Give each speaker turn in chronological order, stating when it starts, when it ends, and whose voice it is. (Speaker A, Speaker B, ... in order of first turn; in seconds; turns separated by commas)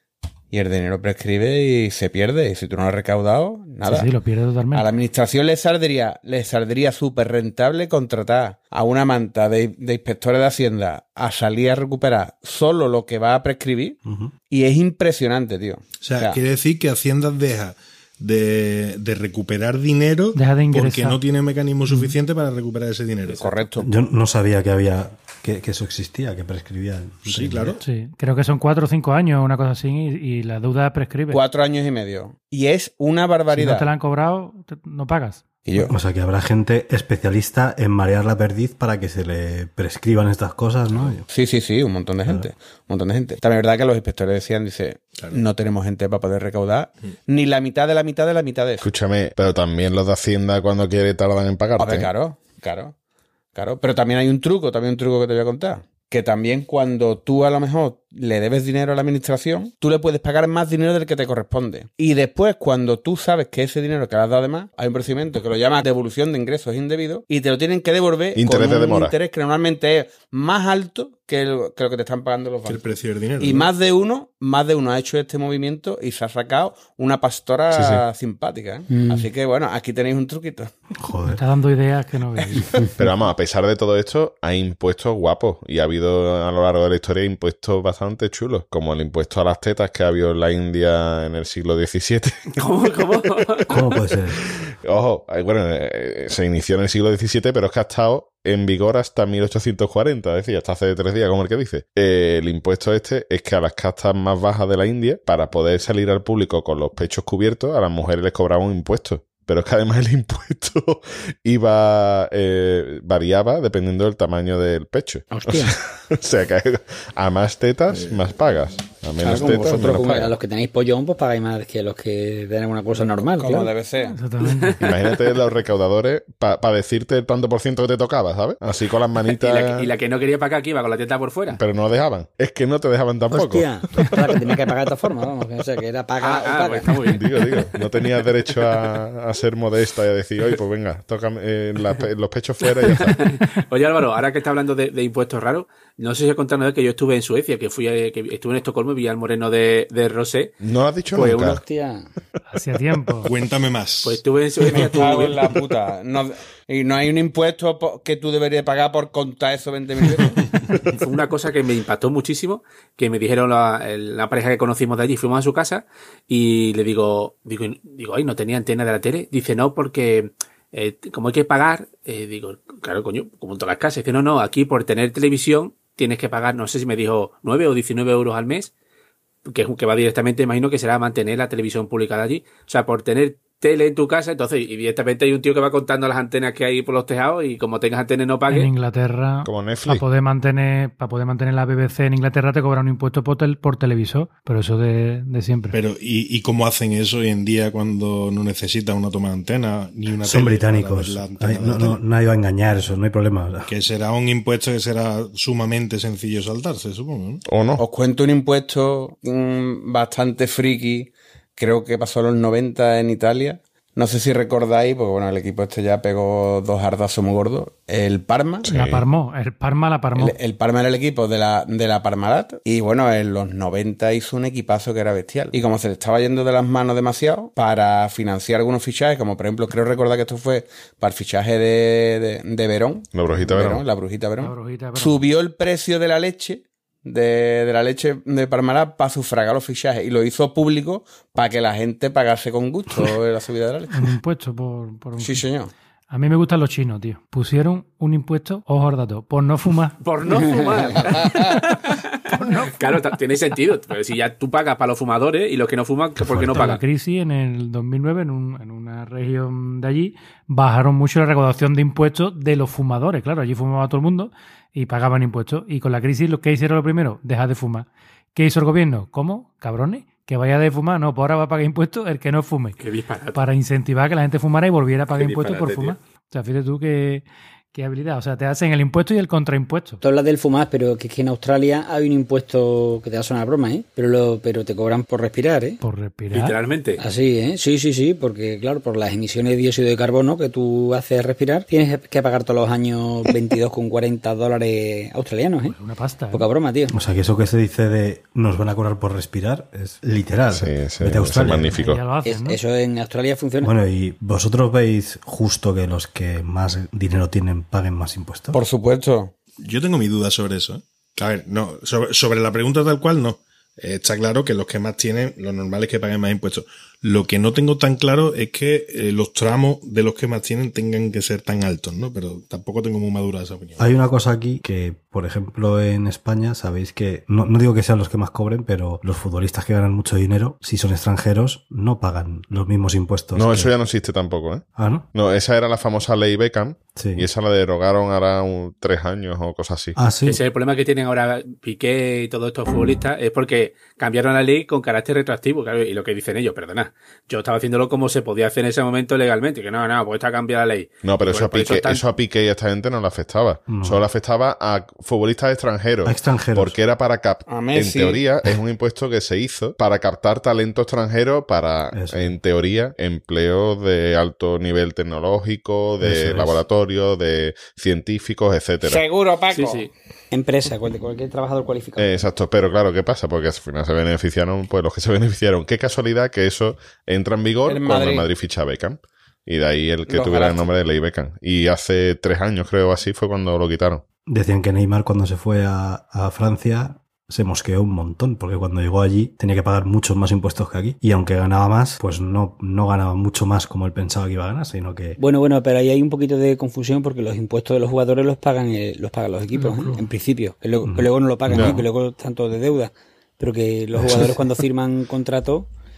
Speaker A: 0.5-4.1, Speaker B: 3.8-4.9, Speaker A: 4.7-16.4, Speaker C: 14.1-14.3, Speaker D: 16.0-23.6, Speaker B: 20.3-21.2, Speaker A: 23.3-23.9, Speaker C: 23.8-27.8, Speaker D: 27.2-27.8, Speaker B: 27.8-31.4, Speaker A: 31.3-33.9, Speaker B: 33.5-35.5, Speaker A: 35.6-36.0, Speaker C: 35.9-41.2, Speaker A: 41.3-48.9, Speaker E: 48.8-52.1, Speaker A: 51.8-53.0, Speaker A: 53.5-72.8, Speaker E: 68.3-69.1, Speaker D: 72.6-73.7, Speaker A: 73.4-80.7, Speaker E: 77.7-78.0, Speaker F: 78.9-79.3, Speaker C: 81.0-81.4, Speaker B: 81.2-82.8, Speaker A: 82.4-82.8, Speaker E: 83.0-93.0, Speaker G: 92.5-93.8, Speaker C: 93.7-94.4, Speaker E: 94.8-120.3, Speaker F: 115.3-115.7, Speaker D: 118.0-118.2, Speaker F: 119.2-123.7, Speaker A: 119.2-120.1, Speaker A: 123.3-124.2, Speaker B: 124.0-124.9, Speaker E: 124.8-129.9, Speaker G: 129.3-131.6, Speaker E: 131.5-134.1, Speaker F: 133.3-137.2, Speaker G: 136.2-137.2, Speaker E: 137.0-143.2, Speaker G: 142.8-150.5, Speaker E: 150.6-151.6, Speaker F: 151.2-152.1, Speaker B: 152.5-153.3, Speaker D: 153.2-154.2, Speaker G: 154.0-155.5, Speaker A: 154.6-160.4, Speaker G: 160.9-178.7, Speaker G: 179.4-188.7, Speaker B: 188.5-195.8, Speaker E: 189.4-190.0, Speaker D: 195.7-202.0, Speaker C: 200.2-203.7, Speaker D: 203.7-207.4, Speaker E: 207.4-207.8, Speaker A: 207.8-218.7, Speaker E: 218.6-219.0, Speaker B: 218.7-220.4, Speaker A: 220.1-244.1, Speaker E: 233.1-233.8, Speaker B: 234.4-235.3, Speaker B: 243.9-245.4, Speaker A: 245.2-245.7, Speaker B: 246.1-250.0, Speaker G: 250.0-256.8, Speaker F: 250.5-251.0, Speaker B: 252.3-253.0, Speaker C: 256.2-256.6, Speaker B: 256.4-272.8, Speaker G: 272.8-273.4, Speaker B: 273.3-280.0, Speaker G: 275.1-275.9, Speaker F: 280.0-285.8, Speaker B: 285.8-286.6, Speaker G: 286.3-287.0, Speaker F: 287.0-295.8, Speaker B: 295.6-296.5, Speaker F: 296.3-296.9, Speaker C: 296.9-301.8, Speaker E: 300.5-302.0, Speaker B: 301.7-302.6, Speaker F: 302.2-303.7, Speaker C: 303.6-308.6, Speaker A: 308.5-309.3, Speaker D: 309.6-323.9, Speaker C: 323.8-333.7, Speaker E: 333.3-339.9, Speaker C: 334.8-335.1, Speaker C: 336.9-337.3, Speaker C: 339.9-340.4, Speaker G: 340.2-352.0, Speaker E: 351.0-369.0, Speaker C: 353.7-354.1, Speaker C: 356.0-356.8, Speaker A: 357.5-358.2, Speaker C: 361.9-362.4, Speaker C: 366.0-366.6, Speaker A: 368.8-369.9, Speaker G: 369.5-369.9, Speaker F: 370.3-372.1, Speaker E: 372.0-384.0, Speaker A: 377.6-378.3, Speaker A: 380.1-380.7, Speaker C: 384.2-395.2, Speaker F: 395.2-405.7, Speaker B: 399.5-400.0, Speaker C: 400.8-401.8, Speaker E: 401.5-401.8, Speaker C: 403.9-404.4